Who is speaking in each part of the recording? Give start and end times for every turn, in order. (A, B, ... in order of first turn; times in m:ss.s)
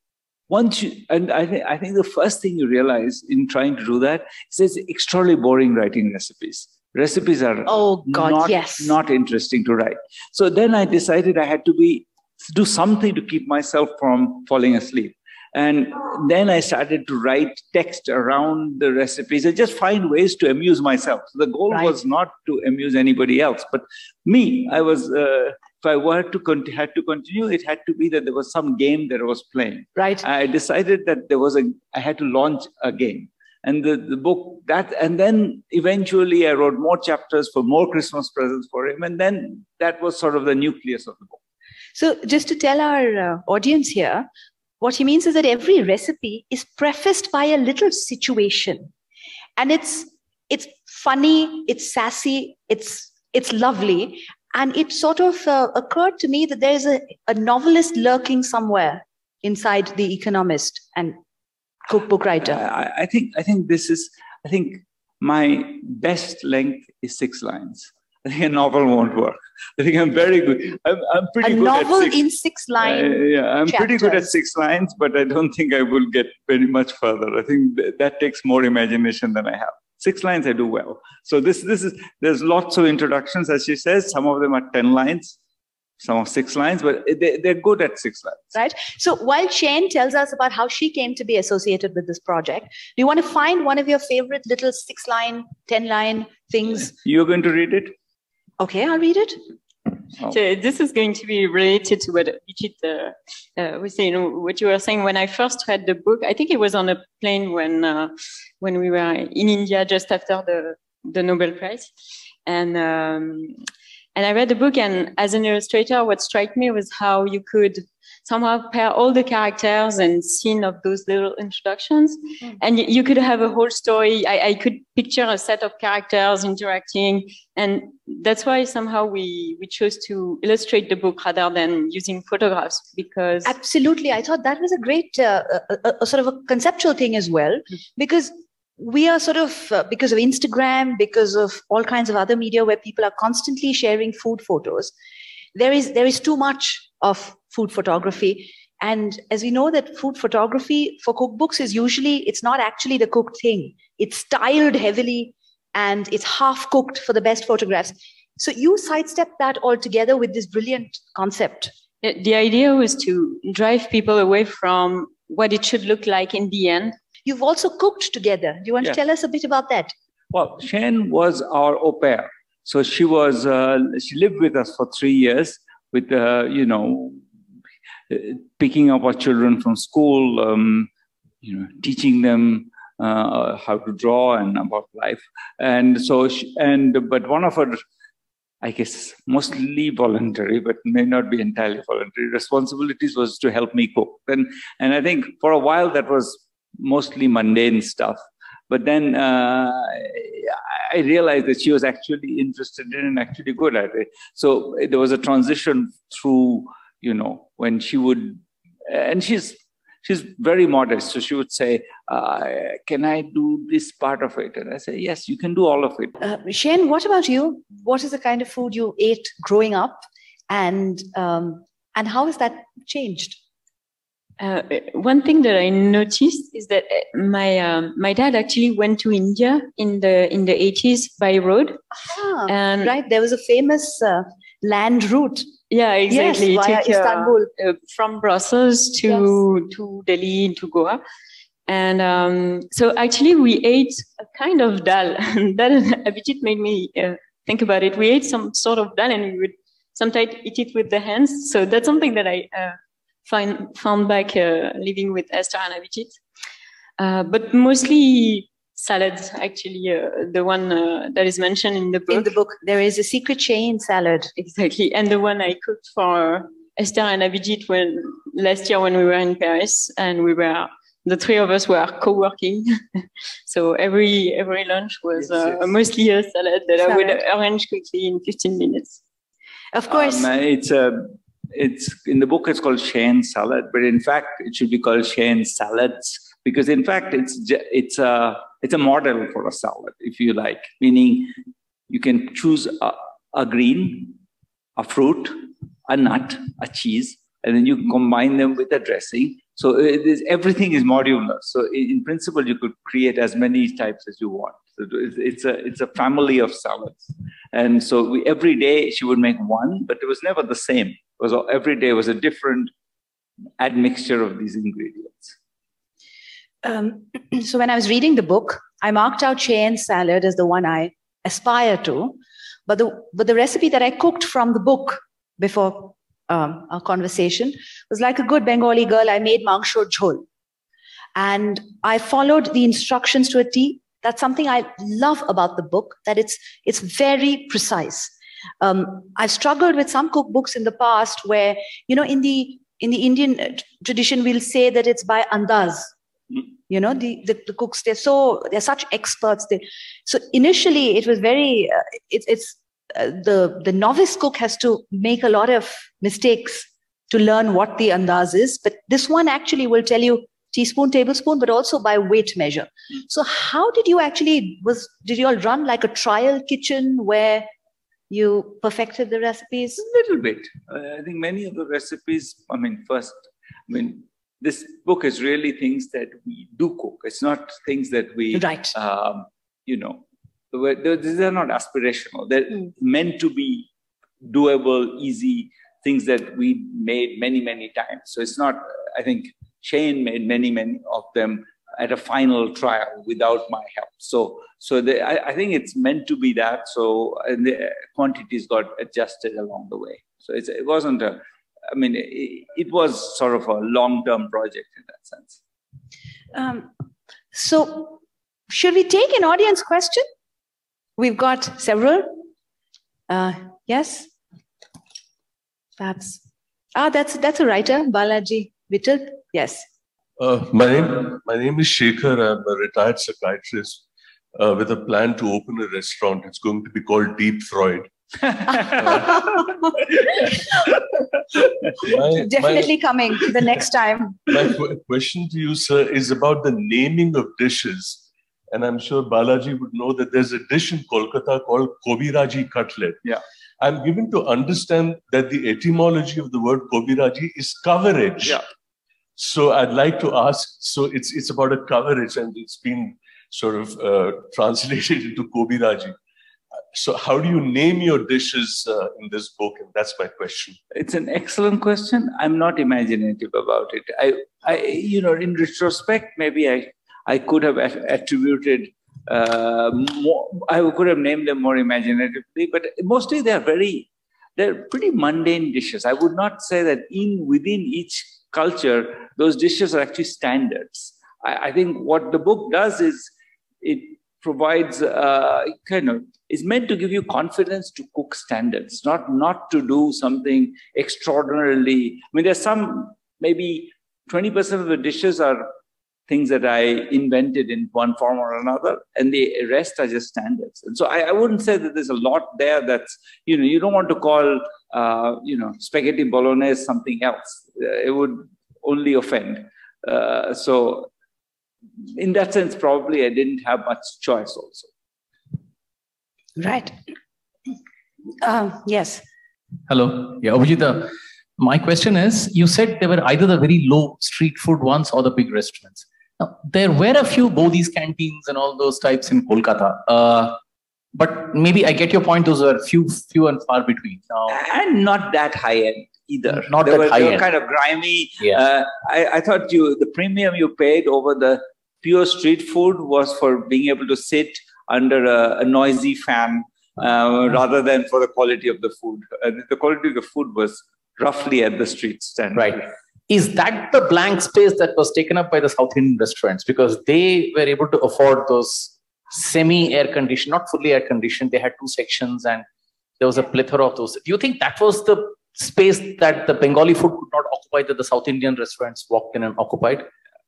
0:00.5-0:41.4 A
0:07.7-0:09.0 B
0:21.7-0:22.0 B
0:30.0-0:30.2 B
0:41.9-0:44.3 B
0:44.8-0:48.9 B
0:49.6-1:01.2 B
1:01.9-1:02.6 B
1:02.4-1:12.2 A
1:11.4-1:14.3 B
1:12.8-1:25.4 A
1:26.0-1:28.6 A
1:28.5-1:36.9 B
1:36.9-1:37.9 A
1:38.6-1:39.4 B
1:40.3-1:51.9 C
1:52.4-1:53.6 C
1:54.1-2:13.5 C
2:13.4-2:24.9 B
2:25.5-2:41.7 B
2:42.0-2:47.0 C
2:47.2-2:49.9 B
2:50.3-2:57.2 A
2:58.1-3:00.9 A
3:01.4-3:07.8 A
3:08.6-3:36.2 A
3:36.2-3:43.4 B
3:44.4-3:51.8 C
3:52.0-3:55.5 B
3:52.5-3:52.9 C
3:55.7-4:01.0 C
3:56.1-3:57.5 B
4:01.7-4:16.2 C
4:17.0-4:22.3 C
4:22.1-4:24.3 B
4:24.4-4:39.0 C
4:35.2-4:35.6 A
4:36.8-4:37.2 B
4:39.7-4:40.3 B
4:39.9-4:51.3 A
4:51.9-4:54.2 A
4:54.8-5:12.7 A
5:13.6-5:15.4 A
5:16.6-5:30.2 B
5:31.2-5:45.9 B
5:46.7-6:07.5 B
6:08.1-6:09.8 B
6:09.8-6:23.7 A
6:18.3-6:18.7 B
6:24.2-6:45.4 A
6:46.3-6:46.7 B
6:47.3-6:50.0 B
6:51.0-6:52.2 B
6:53.1-6:54.1 B
6:55.8-6:56.2 B
6:56.7-6:59.7 B
7:00.2-7:03.8 D
7:04.4-7:07.9 D
7:08.3-7:09.0 A
7:08.7-7:09.1 D
7:11.8-7:12.7 D
7:12.2-7:14.2 B
7:14.3-7:23.0 D
7:23.6-7:28.4 D
7:29.2-7:36.0 D
7:36.7-7:40.6 D
7:40.7-8:15.5 A
8:16.1-8:30.9 A
8:31.8-8:34.7 A
8:36.4-8:36.7 B
8:38.2-8:39.0 B
8:39.7-8:50.4 E
8:50.9-8:54.4 E
8:54.3-9:12.7 A
8:56.3-8:57.3 E
9:12.3-9:22.4 E
9:23.0-9:29.9 E